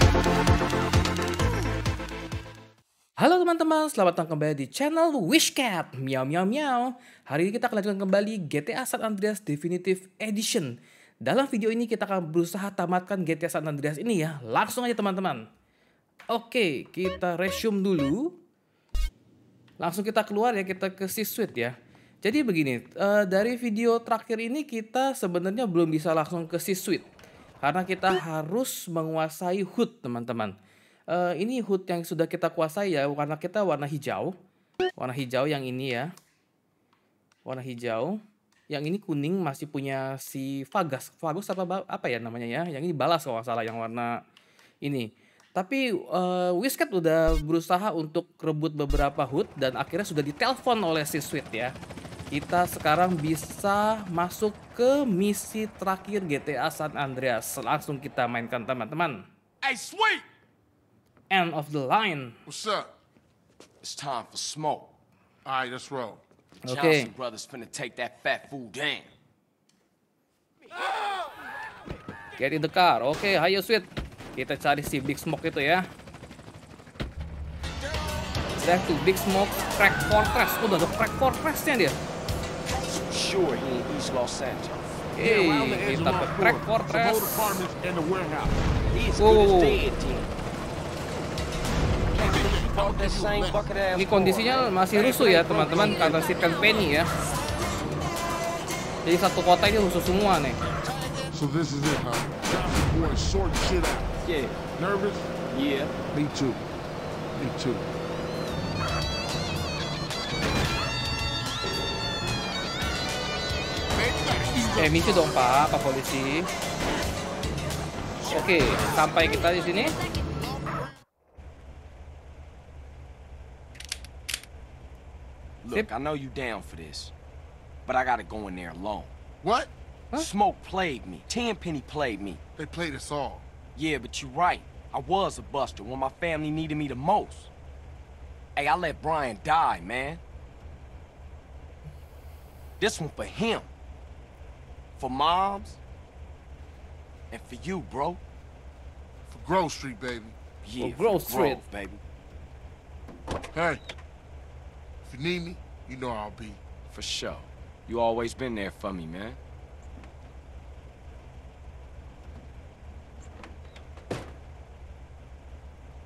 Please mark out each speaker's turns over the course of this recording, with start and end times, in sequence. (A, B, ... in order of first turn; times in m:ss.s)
0:03.2-0:10.7 A
0:11.2-0:15.4 A
0:16.3-0:18.3 A
0:19.8-0:27.0 A
0:27.6-0:30.5 A
0:31.1-0:34.3 A
0:35.0-0:36.1 A
0:37.4-0:38.2 A
0:38.7-0:44.1 A
0:44.8-0:51.7 A
0:52.3-0:59.2 A
0:59.6-1:00.2 B
1:01.3-1:02.4 A
1:02.5-1:02.9 C
1:03.8-1:04.9 B
1:05.4-1:06.2 C
1:06.6-1:09.1 B
1:06.7-1:07.1 A
1:12.4-1:13.8 A
1:14.4-1:15.8 A
1:18.6-1:22.0 A
1:22.7-1:24.9 B
1:25.1-1:27.2 A
1:25.2-1:28.6 C
1:28.9-1:30.3 B
1:29.2-1:29.8 A
1:32.1-1:36.3 B
1:32.2-1:33.7 C
1:34.0-1:37.1 A
1:39.0-1:40.6 A
1:41.3-1:44.1 C
1:44.2-1:44.6 B
1:44.7-1:45.5 C
1:45.5-1:45.9 B
1:46.1-1:46.6 C
1:47.4-1:47.9 C
1:53.9-1:55.4 C
1:54.8-1:56.5 A
1:58.3-2:00.0 A
2:05.6-2:07.1 B
2:07.8-2:09.1 B
2:09.4-2:09.7 C
2:10.1-2:12.4 B
2:12.6-2:13.4 C
2:13.8-2:17.5 B
2:18.6-2:20.2 B
2:22.8-2:23.7 B
2:25.0-2:25.8 B
2:27.3-2:28.2 B
2:29.3-2:30.4 C
2:30.6-2:32.0 B
2:30.8-2:31.6 A
2:33.5-2:33.8 C
2:35.0-2:36.6 C
2:36.9-2:39.4 B